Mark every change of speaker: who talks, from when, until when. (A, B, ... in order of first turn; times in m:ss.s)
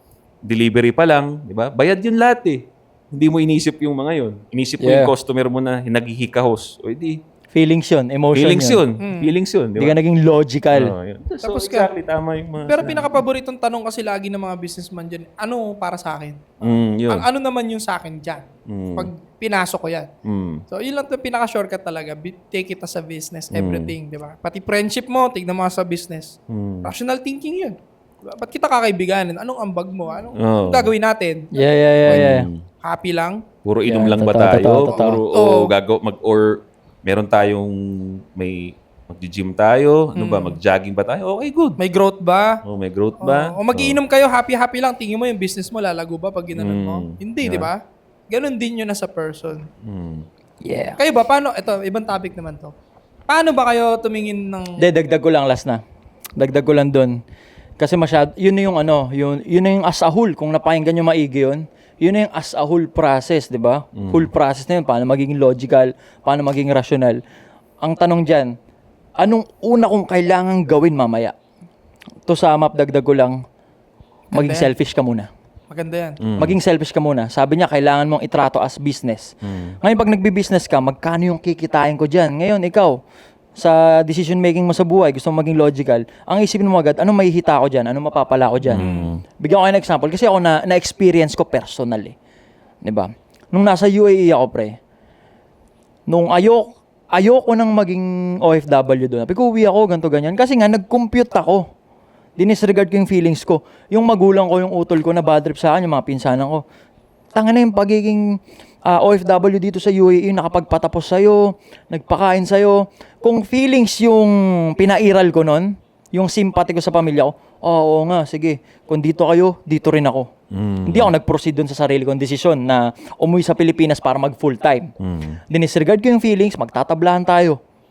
0:00.4-0:07.2 A
0:04.8-0:05.1 B
0:07.5-0:08.8 B
0:08.3-0:09.9 A
0:09.0-0:09.3 C
0:09.8-0:10.9 B
0:10.7-0:13.2 A
0:11.4-0:11.9 C
0:12.7-0:20.1 C
0:16.6-0:17.2 A
0:18.7-0:19.1 A
0:20.2-0:20.6 A
0:20.7-0:31.5 C
0:23.5-0:23.9 A
0:26.5-0:26.9 A
0:30.4-0:30.9 A
0:31.6-0:32.5 B
0:32.1-0:32.6 A
0:32.8-0:33.4 C
0:33.6-0:41.8 A
0:33.9-0:35.2 B
0:34.9-0:35.7 C
0:40.2-0:40.6 C
0:41.8-0:42.6 C
0:42.6-0:44.0 A
0:43.2-0:47.8 C
0:46.6-0:47.7 A
0:48.3-0:49.7 C
0:49.8-0:50.3 A
0:50.6-0:51.0 B
0:51.0-0:52.7 C
0:53.3-0:54.8 C
0:54.8-0:55.8 B
0:56.4-0:57.2 B
0:57.8-1:07.2 B
1:04.0-1:04.3 A
1:07.8-1:08.5 B
1:09.2-1:11.3 B
1:12.3-1:13.4 B
1:14.3-1:14.7 C
1:14.3-1:15.3 B
1:15.7-1:16.2 C
1:16.2-1:16.6 A
1:16.4-1:23.0 B
1:19.4-1:19.8 A
1:23.6-1:28.9 B
1:28.6-1:29.2 A
1:28.8-1:29.1 C
1:29.4-1:32.2 B
1:32.8-1:34.8 B
1:36.1-1:41.7 B
1:42.4-1:46.6 B
1:47.3-2:00.3 B
2:00.5-2:01.1 A
2:00.9-2:04.9 B
2:05.0-2:05.4 A
2:05.5-2:07.6 B